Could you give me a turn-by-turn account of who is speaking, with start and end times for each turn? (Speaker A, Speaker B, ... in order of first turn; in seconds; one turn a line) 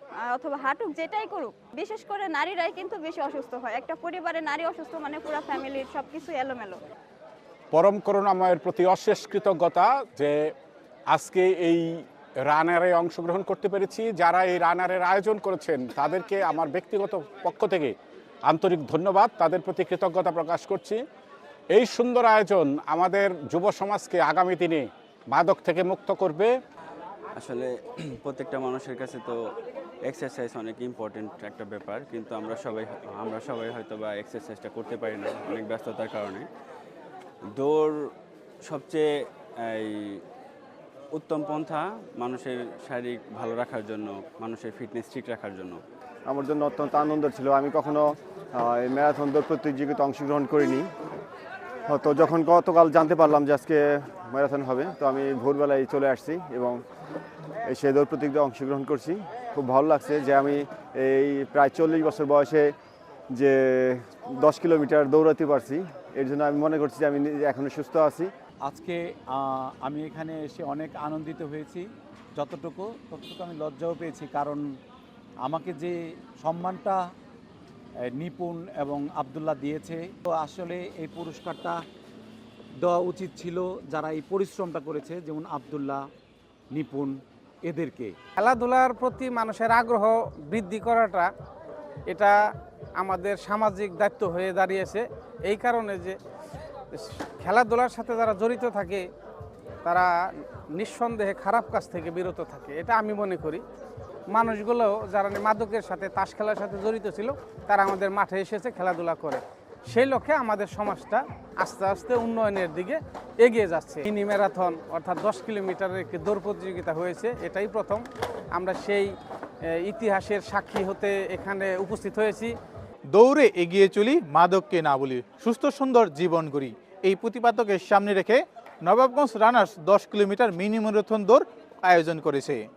Speaker A: 0.3-6.8
Speaker B: 7.7-10.5
Speaker B: 11.1-17.9
Speaker B: 18.5-21.0
Speaker B: 21.7-26.5
Speaker C: 27.4-29.4
Speaker C: 30.0-36.5
Speaker C: 37.5-38.1
Speaker C: 38.6-40.2
Speaker C: 41.1-45.8
Speaker D: 46.3-48.0
Speaker D: 48.6-50.9
Speaker D: 51.9-56.8
Speaker D: 57.7-62.7
Speaker D: 63.4-68.3
Speaker E: 68.7-74.6
Speaker E: 75.5-77.0
Speaker E: 78.1-81.8
Speaker E: 82.8-86.0
Speaker E: 86.7-88.2
Speaker F: 88.4-91.3
Speaker F: 92.1-92.4
Speaker F: 93.0-96.2
Speaker F: 97.0-99.0
Speaker F: 100.8-103.6
Speaker F: 104.3-118.0
Speaker F: 118.5-119.1
Speaker F: 119.9-122.5
Speaker G: 123.1-132.6